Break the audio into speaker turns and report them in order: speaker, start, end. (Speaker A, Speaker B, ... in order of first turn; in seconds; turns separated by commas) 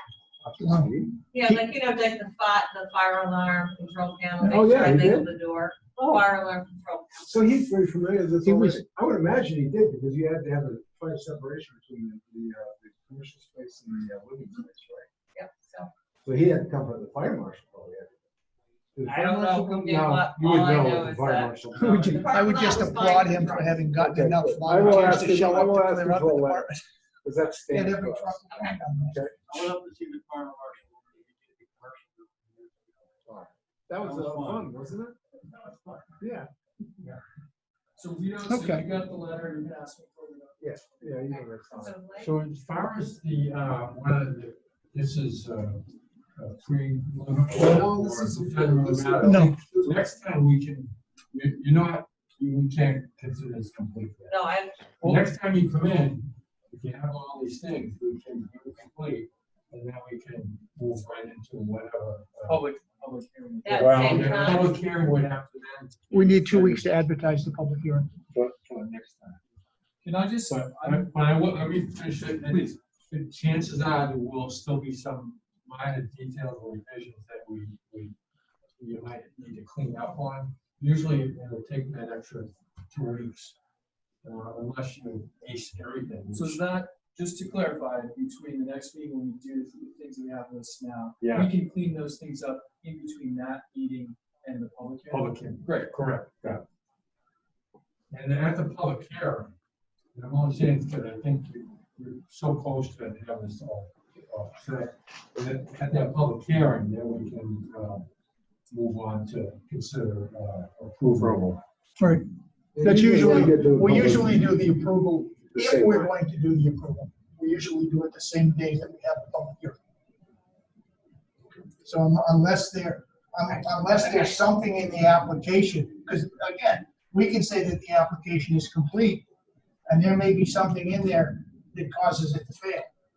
Speaker A: 0.4-1.1, Speaker B: 0.6-0.9, Speaker C: 1.3-7.3, Speaker A: 4.4-5.3, Speaker A: 6.0-6.2, Speaker A: 7.3-15.1, Speaker B: 8.4-8.8, Speaker C: 15.3-15.9, Speaker A: 16.2-18.1, Speaker A: 18.9-22.2, Speaker C: 19.1-23.8, Speaker B: 21.7-26.8, Speaker A: 23.9-26.7, Speaker A: 27.2-28.4, Speaker B: 27.7-29.3, Speaker C: 28.5-28.8, Speaker D: 29.5-32.9, Speaker A: 33.3-35.2, Speaker D: 34.0-34.7, Speaker A: 36.2-36.5, Speaker E: 38.0-41.2, Speaker B: 38.5-38.8, Speaker A: 40.6-41.9, Speaker C: 41.3-42.4, Speaker F: 42.2-45.9, Speaker F: 46.4-54.4, Speaker A: 47.5-50.0, Speaker B: 49.2-49.5, Speaker C: 54.3-54.9, Speaker E: 55.0-55.2, Speaker F: 55.0-62.6, Speaker E: 62.5-64.3, Speaker C: 63.6-64.7, Speaker F: 63.8-66.8, Speaker B: 66.1-68.2, Speaker F: 68.3-69.4, Speaker E: 70.0-71.1, Speaker F: 70.5-78.2, Speaker F: 78.8-83.6, Speaker F: 84.2-86.7, Speaker E: 86.3-95.9, Speaker F: 91.2-91.5, Speaker F: 95.1-96.6, Speaker F: 98.1-99.5, Speaker F: 100.1-108.1, Speaker F: 108.7-111.6, Speaker B: 112.0-112.3, Speaker A: 112.7-114.5, Speaker B: 112.8-119.8, Speaker A: 115.5-116.1, Speaker B: 121.8-129.3, Speaker B: 129.9-132.9